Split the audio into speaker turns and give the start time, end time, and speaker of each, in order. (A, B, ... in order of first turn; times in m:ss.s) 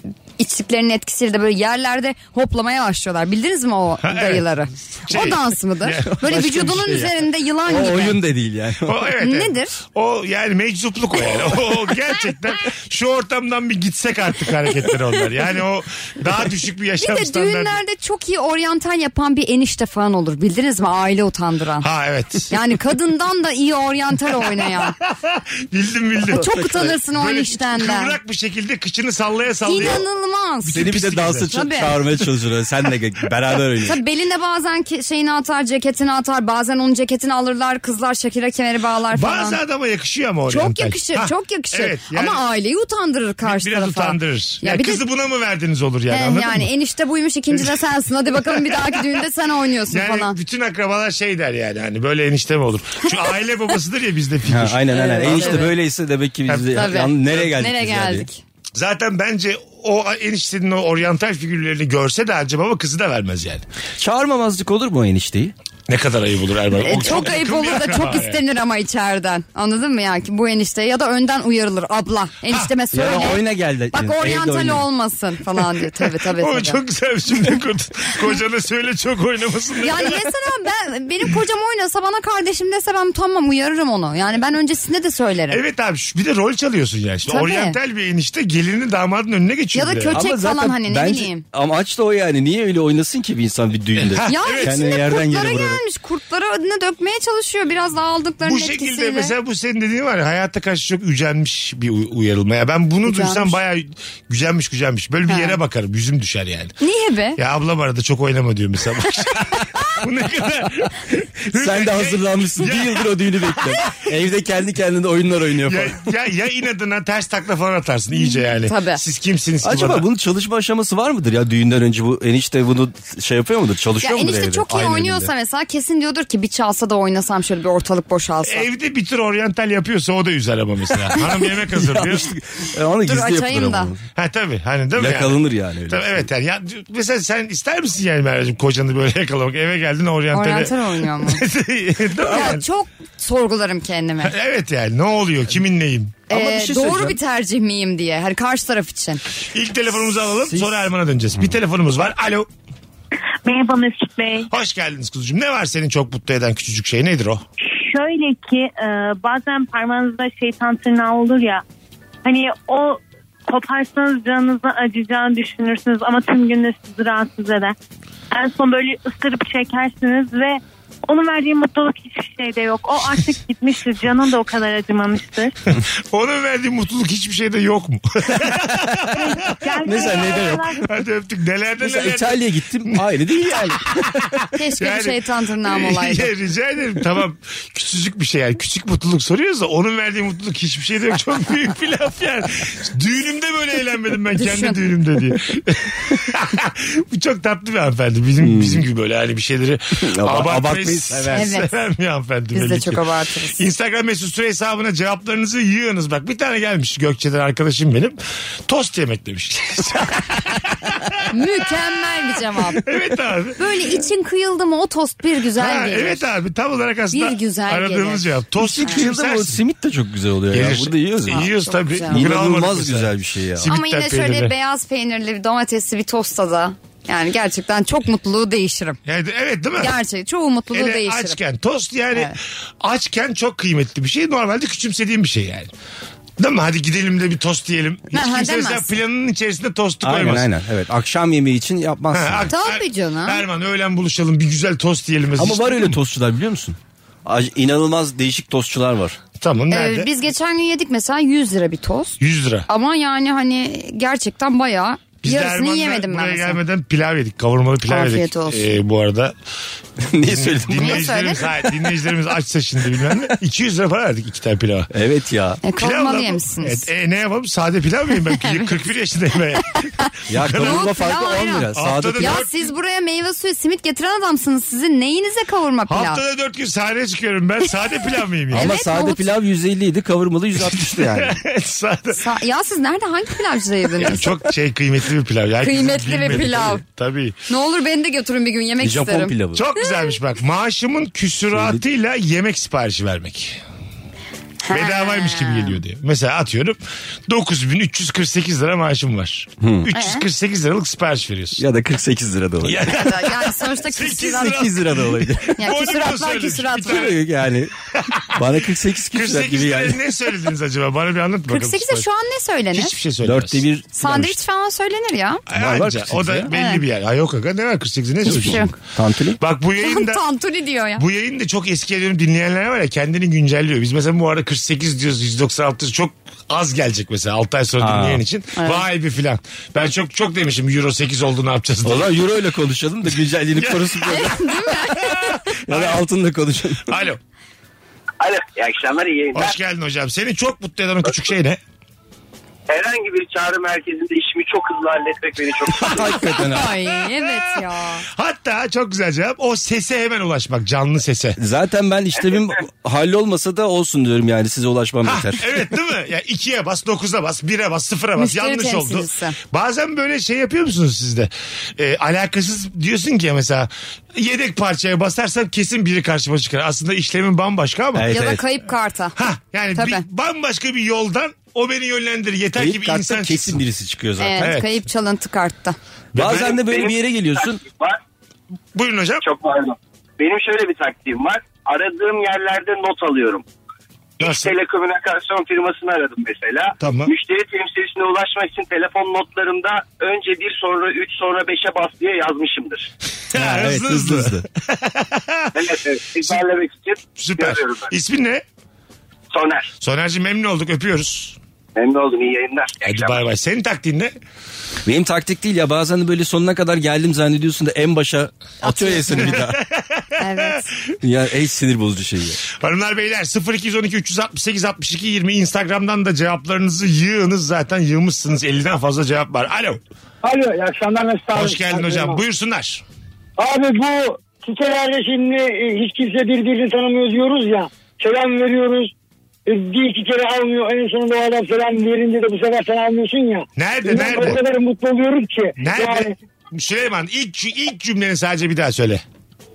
0:00.4-0:08.2 A
0:04.0-0:04.5 B
0:05.0-0:06.8 B
0:06.2-0:09.0 C
0:08.8-0:17.8 B
0:09.2-0:09.8 A
0:17.0-0:21.9 A
0:21.8-0:22.5 B
0:22.5-0:25.0 A
0:24.6-0:30.0 B
0:26.3-0:28.2 A
0:26.4-0:26.9 C
0:29.6-0:30.9 A
0:30.7-0:31.5 B
0:30.7-0:34.0 C
0:31.5-0:32.0 A
0:33.8-0:39.6 A
0:39.1-0:42.4 B
0:40.5-0:45.0 A
0:43.4-0:46.7 B
0:46.1-0:50.4 A
0:48.4-0:49.2 B
0:49.9-0:55.7 B
0:54.5-0:58.3 C
0:54.9-0:55.7 A
0:56.5-0:57.5 B
0:56.7-0:58.4 A
0:58.8-1:03.6 B
1:04.0-1:05.5 C
1:05.9-1:08.4 B
1:06.8-1:16.8 A
1:12.9-1:14.8 C
1:16.2-1:20.3 B
1:19.8-1:25.6 A
1:25.5-1:30.2 B
1:27.3-1:27.8 A
1:29.7-1:31.4 A
1:30.1-1:35.8 C
1:34.0-1:35.0 B
1:34.3-1:39.3 A
1:38.4-1:46.7 B
1:43.1-1:43.6 A
1:45.3-1:45.6 A
1:46.8-1:47.4 A
1:47.4-1:54.0 B
1:51.5-1:56.0 C
1:55.6-2:00.1 B
1:58.2-1:59.0 A
1:59.6-2:05.3 C
2:04.0-2:08.7 A
2:08.4-2:12.3 B
2:11.7-2:14.0 C
2:13.0-2:13.9 A
2:14.2-2:22.6 B
2:15.0-2:16.2 C
2:20.3-2:21.4 A
2:22.2-2:24.4 A
2:24.2-2:26.2 B
2:26.3-2:27.2 C
2:26.3-2:29.2 A
2:29.5-2:32.5 B
2:30.4-2:30.8 C
2:33.4-2:34.5 D
2:34.5-2:37.4 B
2:37.6-2:41.6 D
2:42.2-2:47.8 D
2:48.3-2:55.5 D
2:55.7-3:00.2 B
2:59.1-3:00.9 D
2:59.8-3:00.7 C
3:00.8-3:31.3 B
3:01.8-3:04.0 C
3:04.5-3:06.3 A
3:14.4-3:14.8 A
3:18.4-3:18.8 C
3:20.1-3:21.5 C
3:21.3-3:21.7 A
3:22.5-3:23.6 A
3:31.3-3:32.9 A
3:32.8-3:33.6 B
3:33.6-3:36.3 A
3:35.6-3:39.6 B
3:37.1-3:38.3 A
3:38.6-3:41.4 C
3:40.5-3:44.5 B
3:41.3-3:42.3 A
3:42.1-3:43.7 C
3:43.7-3:49.0 A
3:49.1-3:50.0 B
3:49.8-3:51.4 A
3:50.7-3:55.7 B
3:56.4-4:00.5 B
3:58.1-3:58.9 A
4:00.0-4:02.5 C
4:02.1-4:06.0 B
4:02.5-4:03.4 A
4:05.4-4:09.2 C
4:09.4-4:10.1 B
4:09.7-4:16.6 A
4:12.2-4:12.7 B
4:15.2-4:19.4 B
4:17.9-4:18.7 A
4:20.0-4:21.0 C
4:20.2-4:24.9 B
4:20.8-4:21.4 A
4:24.9-4:25.6 C
4:25.6-4:26.9 A
4:25.8-4:30.9 B
4:30.3-4:32.4 C
4:30.6-4:36.2 A
4:31.7-4:32.7 B
4:35.9-4:38.7 B
4:38.5-4:39.3 A
4:38.5-4:41.4 C
4:40.6-4:42.2 B
4:42.1-4:44.3 A
4:44.0-4:47.4 B
4:45.6-4:46.8 A
4:47.5-4:49.3 A
4:48.8-4:49.6 C
4:49.5-4:53.6 B
4:54.6-4:55.8 A
4:54.7-5:01.6 B
4:59.6-4:59.9 C
4:59.9-5:00.2 A
5:01.6-5:02.9 C
5:02.6-5:07.2 B
5:02.9-5:04.6 A
5:04.2-5:05.6 C
5:05.6-5:07.1 A
5:06.8-5:07.7 C
5:08.0-5:08.4 B
5:08.3-5:10.0 C
5:09.1-5:12.1 B
5:11.5-5:13.0 A
5:12.7-5:13.6 B
5:13.2-5:14.4 C
5:13.9-5:15.4 A
5:15.5-5:18.7 B
5:15.6-5:16.5 C
5:16.5-5:16.8 A
5:18.2-5:18.7 A
5:18.3-5:19.4 C
5:19.4-5:20.2 B
5:19.8-5:21.0 A
5:21.0-5:32.2 B
5:27.8-5:28.2 C
5:28.6-5:28.8 A
5:31.8-5:34.5 C
5:33.5-5:34.3 B
5:34.1-5:35.6 A
5:35.0-5:36.0 B
5:35.6-5:37.0 C
5:36.9-5:37.2 B
5:38.2-5:39.6 E
5:39.3-5:41.6 B
5:42.7-5:46.0 E
5:45.7-5:46.3 B
5:45.8-5:46.7 C
5:46.3-5:48.0 A
5:46.9-5:47.6 B
5:48.1-5:51.4 B
5:51.4-5:55.6 C
5:52.2-5:52.4 E
5:55.0-6:08.1 B
5:58.2-5:59.4 A
6:08.0-6:08.4 C
6:08.1-6:09.2 A
6:09.2-6:13.6 B
6:09.8-6:10.0 A
6:12.6-6:14.5 C
6:14.2-6:15.8 A
6:14.4-6:14.8 B
6:16.1-6:16.6 B
6:16.2-6:17.6 C
6:16.2-6:18.0 E
6:18.8-6:19.2 B
6:19.2-6:23.4 E
6:24.2-6:24.5 B
6:24.2-6:32.9 E
6:26.8-6:27.1 B
6:33.3-6:35.6 B
6:33.4-6:34.4 C
6:35.5-6:37.9 E
6:37.2-6:38.4 B
6:39.3-6:39.7 E
6:39.8-6:41.4 B
6:41.8-6:43.2 E
6:42.8-6:44.1 B
6:44.9-6:49.6 C
6:48.6-6:49.4 A
6:49.1-6:50.6 B
6:50.2-6:50.7 A
6:51.0-6:52.4 C
6:52.5-6:59.8 B
7:00.2-7:02.2 F
7:01.3-7:02.8 B
7:03.4-7:08.9 F
7:09.5-7:16.2 F
7:13.6-7:14.4 B
7:15.6-7:19.0 B